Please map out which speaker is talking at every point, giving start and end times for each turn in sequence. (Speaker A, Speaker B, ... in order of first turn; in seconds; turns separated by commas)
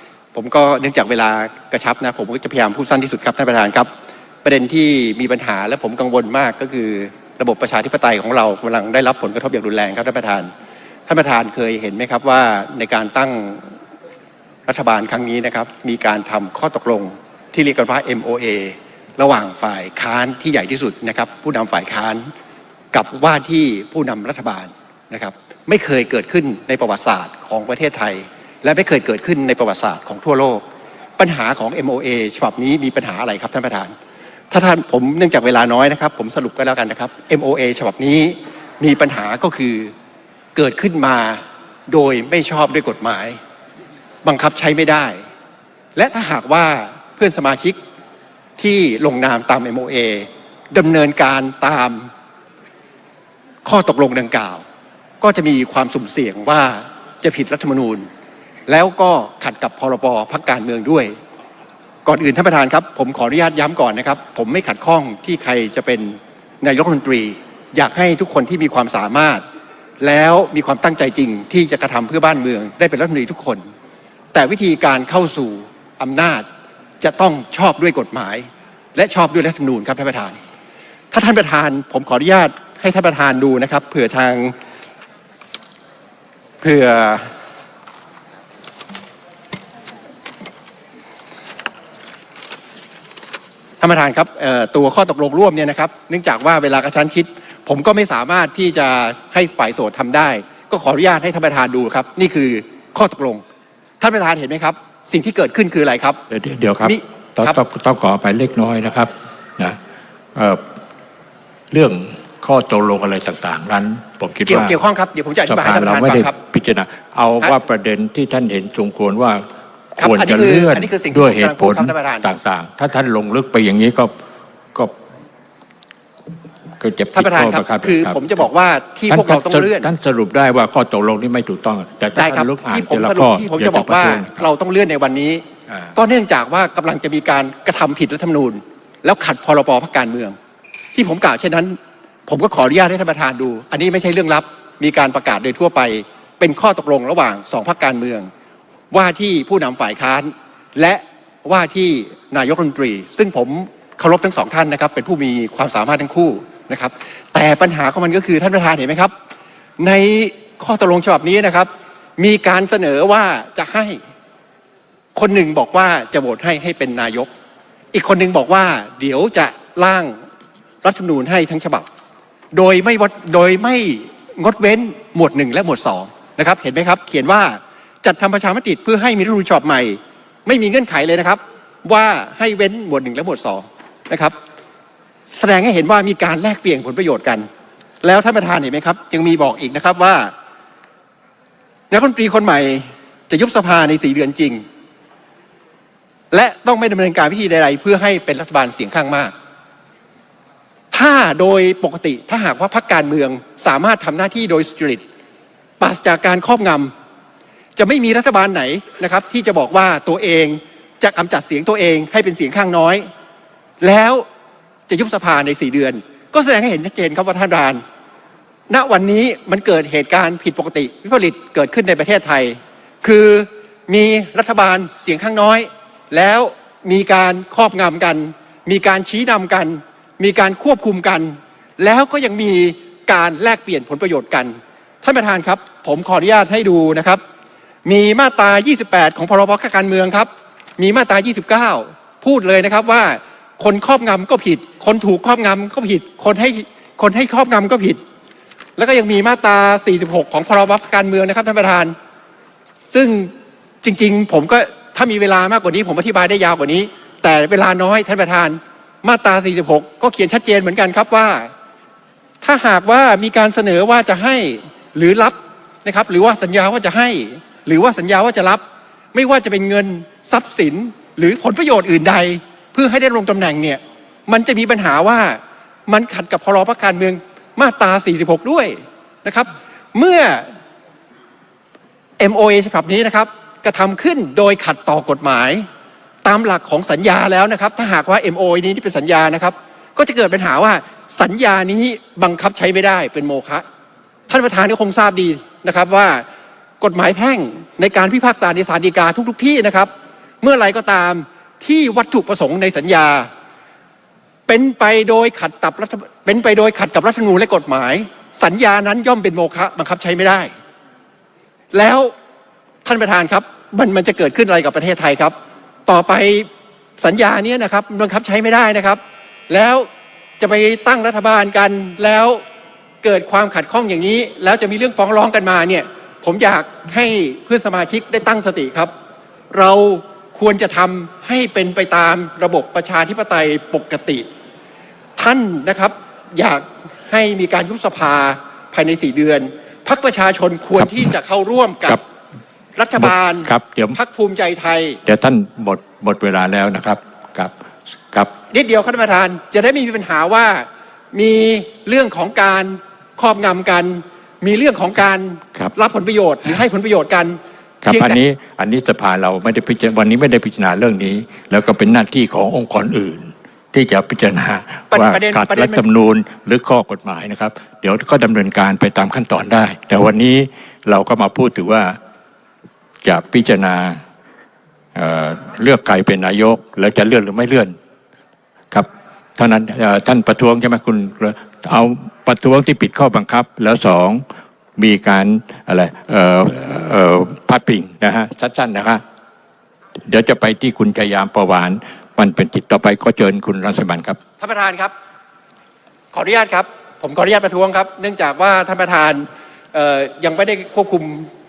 Speaker A: 0.3-3.9, Speaker A: 4.4-10.5, Speaker A: 11.1-13.7, Speaker A: 14.7-22.3, Speaker A: 22.9-30.6, Speaker A: 31.2-33.9, Speaker A: 34.5-39.9, Speaker A: 40.5-43.4, Speaker A: 44.2-45.2, Speaker A: 46.0-47.8, Speaker A: 48.6-52.1, Speaker A: 53.6-54.6, Speaker A: 55.2-58.1, Speaker A: 58.7-61.1, Speaker A: 62.1-69.4, Speaker A: 70.0-73.7, Speaker A: 74.3-76.5, Speaker A: 77.0-80.4, Speaker A: 81.1-84.5, Speaker A: 86.6-87.3, Speaker A: 93.8-103.4, Speaker A: 104.0-106.2, Speaker B: 106.3-109.8, Speaker A: 106.8-107.6, Speaker B: 110.3-110.6, Speaker B: 111.7-114.8, Speaker A: 114.5-116.3, Speaker B: 115.5-119.4, Speaker B: 120.0-124.1, Speaker A: 120.0-122.3, Speaker B: 126.8-128.4, Speaker A: 127.2-129.9, Speaker B: 129.1-134.5, Speaker A: 132.2-135.4, Speaker A: 135.9-140.4, Speaker A: 140.9-148.3, Speaker A: 148.9-159.1, Speaker A: 159.8-164.0, Speaker A: 165.2-167.3, Speaker A: 167.9-170.2, Speaker A: 170.8-171.9, Speaker A: 172.5-184.3, Speaker A: 185.3-187.5, Speaker A: 188.0-190.3, Speaker A: 191.9-194.6, Speaker A: 196.3-199.3, Speaker A: 200.9-205.0, Speaker A: 205.8-206.9, Speaker A: 207.8-213.1, Speaker A: 213.8-214.3, Speaker A: 214.9-217.8, Speaker A: 218.7-237.2, Speaker A: 237.8-248.0, Speaker A: 248.8-251.9, Speaker A: 252.9-261.5, Speaker A: 262.4-268.6, Speaker A: 269.1-280.5, Speaker A: 282.2-285.7, Speaker A: 286.2-293.7, Speaker A: 294.3-296.3, Speaker A: 296.8-303.3, Speaker A: 304.5-310.5, Speaker A: 311.7-312.1, Speaker A: 312.9-315.4, Speaker A: 315.9-316.5, Speaker A: 317.0-319.9, Speaker A: 320.4-322.4, Speaker A: 323.0-328.9, Speaker A: 329.5-334.3, Speaker A: 335.2-342.0, Speaker B: 340.8-341.1, Speaker A: 342.8-345.0, Speaker B: 343.0-344.0, Speaker B: 345.1-347.6, Speaker A: 348.5-358.2, Speaker B: 357.8-372.0, Speaker A: 364.9-365.8, Speaker B: 373.0-374.0, Speaker B: 374.9-377.8, Speaker B: 378.7-384.2, Speaker B: 384.8-389.0, Speaker B: 390.1-394.2, Speaker A: 394.4-394.9, Speaker A: 396.1-401.3